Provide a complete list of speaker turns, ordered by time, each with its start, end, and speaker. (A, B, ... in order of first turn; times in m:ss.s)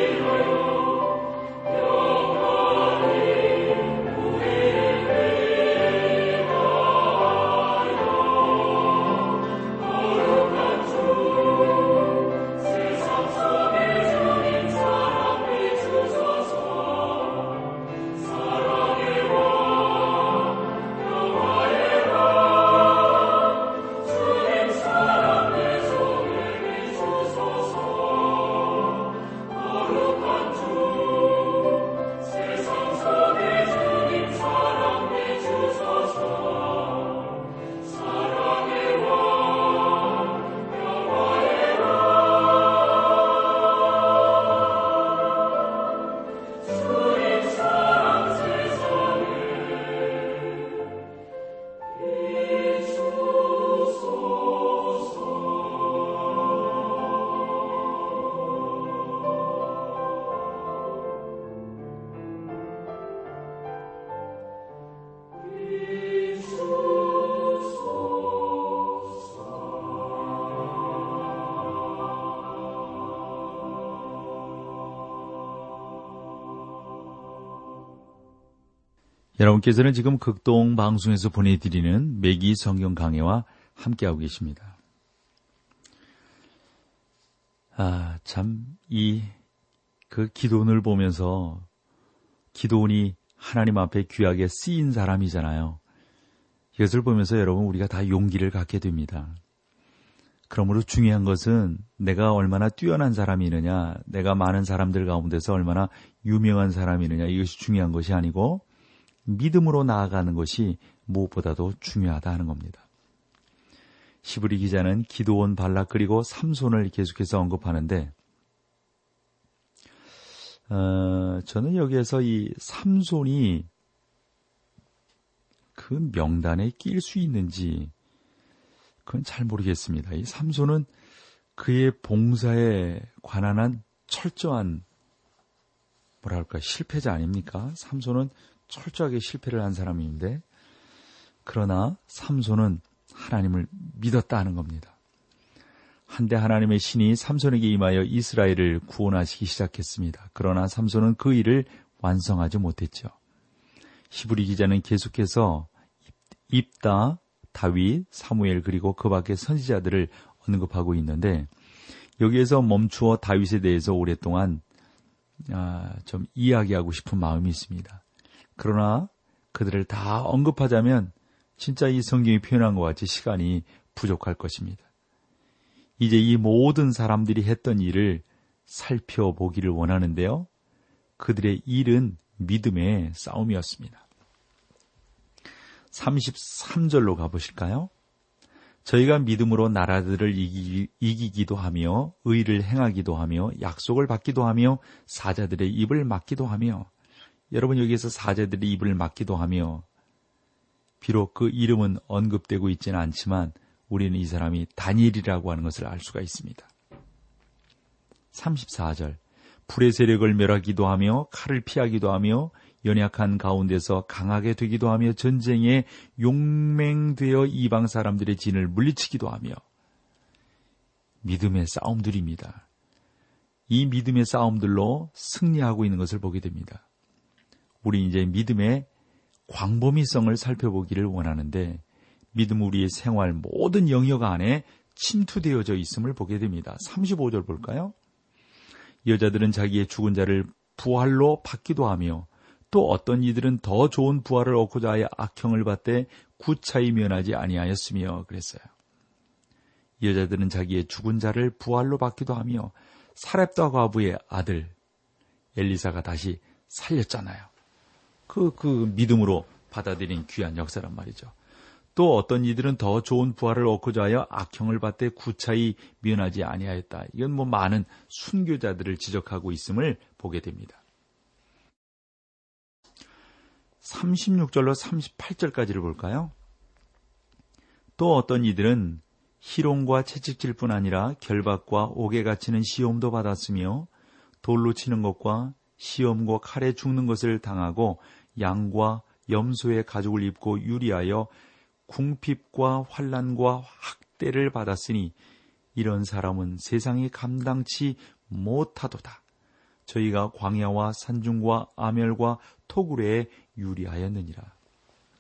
1:19.4-1:24.8 A
1:27.8-1:29.3 A
1:30.1-1:31.7 A
1:32.5-1:35.8 A
1:36.8-1:39.4 A
1:40.5-1:48.6 A
1:49.2-1:52.8 A
1:54.2-1:58.1 A
2:00.7-2:03.7 A
2:05.8-2:07.9 A
2:09.0-2:10.9 A
2:11.6-2:14.8 A
2:16.2-2:20.4 A
2:21.4-2:25.0 A
2:26.1-2:33.1 A
2:34.1-2:35.7 A
2:36.5-2:41.5 A
2:42.2-2:44.6 A
2:45.5-2:48.0 A
2:48.6-2:54.8 A
2:56.0-3:00.5 A
3:01.2-3:04.0 A
3:05.9-3:07.9 A
3:08.8-3:16.9 A
3:17.5-3:19.8 A
3:21.0-3:26.7 A
3:28.3-3:39.6 A
3:41.2-3:42.6 A
3:43.7-3:46.8 A
3:47.8-3:48.9 A
3:49.5-3:51.8 A
3:52.3-3:57.9 A
3:59.1-4:08.7 A
4:10.0-4:14.8 A
4:15.6-4:17.5 A
4:18.3-4:21.3 A
4:22.0-4:30.8 A
4:33.8-4:36.3 A
4:38.0-4:43.9 A
4:44.4-4:51.3 A
4:51.9-4:55.2 A
4:55.8-4:59.2 A
4:59.9-5:04.6 A